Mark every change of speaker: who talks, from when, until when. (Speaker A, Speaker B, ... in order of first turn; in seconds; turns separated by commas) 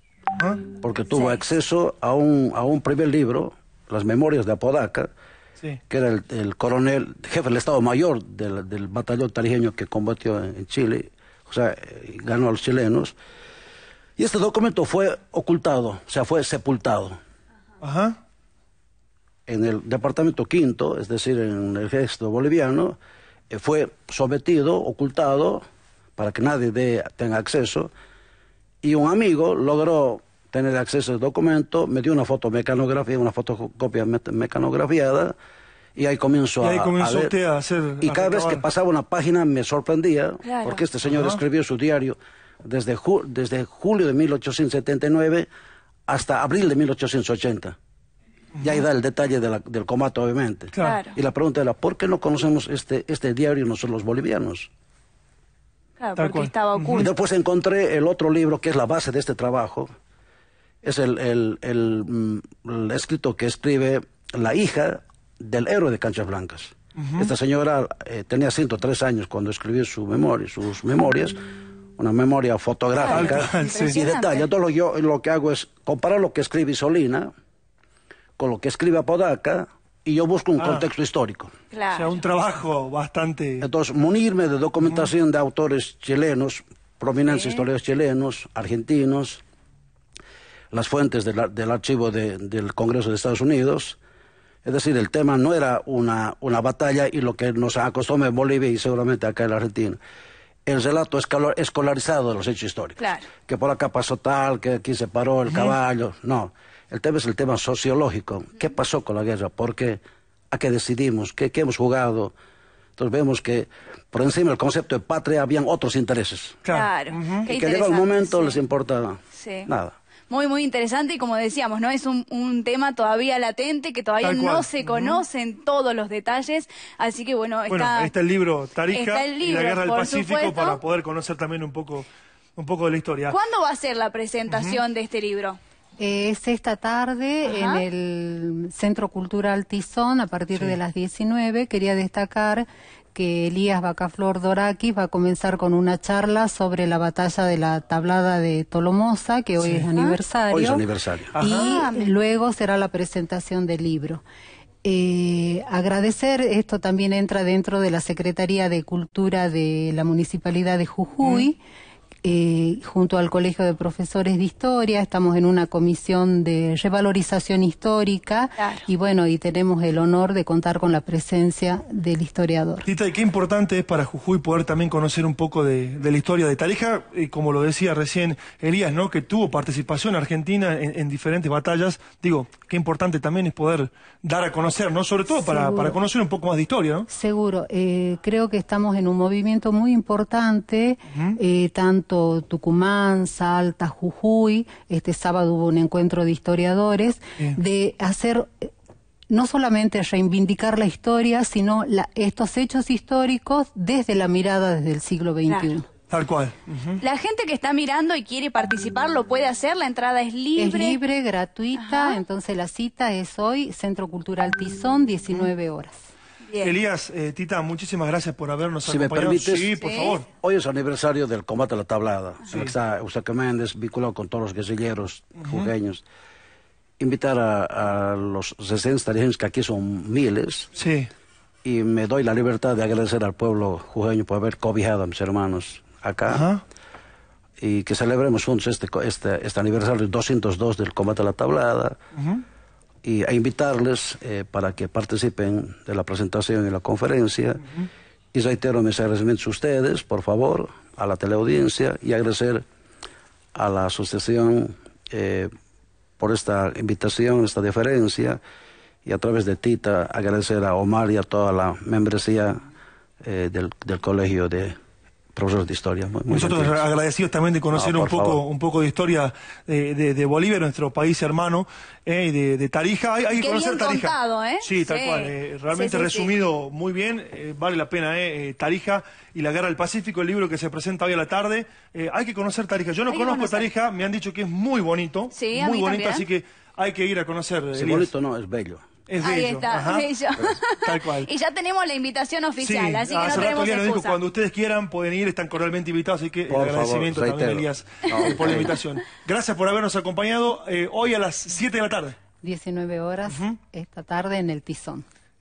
Speaker A: 0.3-0.6, Speaker B: 0.8-5.1, Speaker C: 1.1-1.4, Speaker B: 5.9-13.2, Speaker B: 14.2-17.2, Speaker A: 17.8-18.2, Speaker B: 19.5-23.0, Speaker B: 23.5-25.6, Speaker B: 26.2-27.9, Speaker B: 28.8-35.4, Speaker B: 36.0-37.4, Speaker A: 36.6-38.6, Speaker B: 38.0-45.5, Speaker C: 40.5-40.8, Speaker A: 41.1-41.4, Speaker B: 46.1-47.8, Speaker A: 48.6-48.8, Speaker B: 48.6-54.7, Speaker A: 50.7-51.0, Speaker C: 50.8-51.2, Speaker C: 56.0-57.1, Speaker A: 56.2-57.1, Speaker B: 57.0-59.9, Speaker B: 60.8-71.4, Speaker A: 67.0-67.3, Speaker B: 72.0-77.3, Speaker C: 73.0-74.5, Speaker A: 73.1-74.0, Speaker B: 78.4-81.5, Speaker A: 80.6-80.8, Speaker C: 81.7-82.1, Speaker A: 81.9-83.7, Speaker B: 83.6-89.4, Speaker C: 87.2-87.7, Speaker B: 90.7-94.0, Speaker B: 94.6-100.0, Speaker B: 100.7-112.3, Speaker C: 103.0-103.3, Speaker A: 105.5-105.8, Speaker B: 113.0-116.6, Speaker A: 116.6-117.5, Speaker C: 116.7-118.6, Speaker B: 117.5-120.0, Speaker C: 119.4-119.7, Speaker C: 120.3-128.1, Speaker A: 124.2-125.2, Speaker A: 127.7-133.4, Speaker C: 128.9-130.8, Speaker C: 133.3-135.6, Speaker A: 134.5-134.8, Speaker D: 136.0-150.8, Speaker C: 137.4-137.8, Speaker A: 140.5-140.8, Speaker A: 149.6-149.9, Speaker B: 150.5-151.4, Speaker A: 151.3-151.7, Speaker D: 151.4-154.2, Speaker C: 151.5-152.1, Speaker D: 154.8-161.6, Speaker D: 162.2-172.9, Speaker C: 168.6-168.9, Speaker A: 172.8-187.1, Speaker D: 185.3-186.0, Speaker D: 187.1-198.7, Speaker A: 191.1-191.4, Speaker D: 199.3-205.9, Speaker C: 205.5-205.7, Speaker A: 206.1-207.0, Speaker C: 207.0-211.0, Speaker D: 210.6-216.0, Speaker C: 211.8-212.2, Speaker C: 216.5-216.8, Speaker A: 216.6-220.3, Speaker B: 218.8-219.8, Speaker C: 219.8-220.2, Speaker B: 220.4-226.0, Speaker A: 222.5-222.7, Speaker A: 225.4-225.7, Speaker B: 227.0-230.7, Speaker A: 230.8-231.1, Speaker B: 231.6-236.5, Speaker A: 236.3-236.6, Speaker B: 237.6-242.0, Speaker A: 242.2-242.4, Speaker B: 243.0-247.7, Speaker B: 248.3-252.6, Speaker B: 253.5-255.5, Speaker B: 256.2-258.4, Speaker B: 259.1-262.6, Speaker B: 263.2-264.8, Speaker B: 265.3-266.8, Speaker A: 266.3-288.1, Speaker B: 267.7-268.4, Speaker C: 273.4-276.3, Speaker C: 283.1-283.7, Speaker C: 285.3-286.2, Speaker B: 287.7-288.9, Speaker A: 289.1-290.1, Speaker C: 289.2-294.2, Speaker A: 290.8-291.3, Speaker A: 292.6-302.2, Speaker B: 296.5-298.8, Speaker D: 302.4-305.1, Speaker A: 303.3-303.6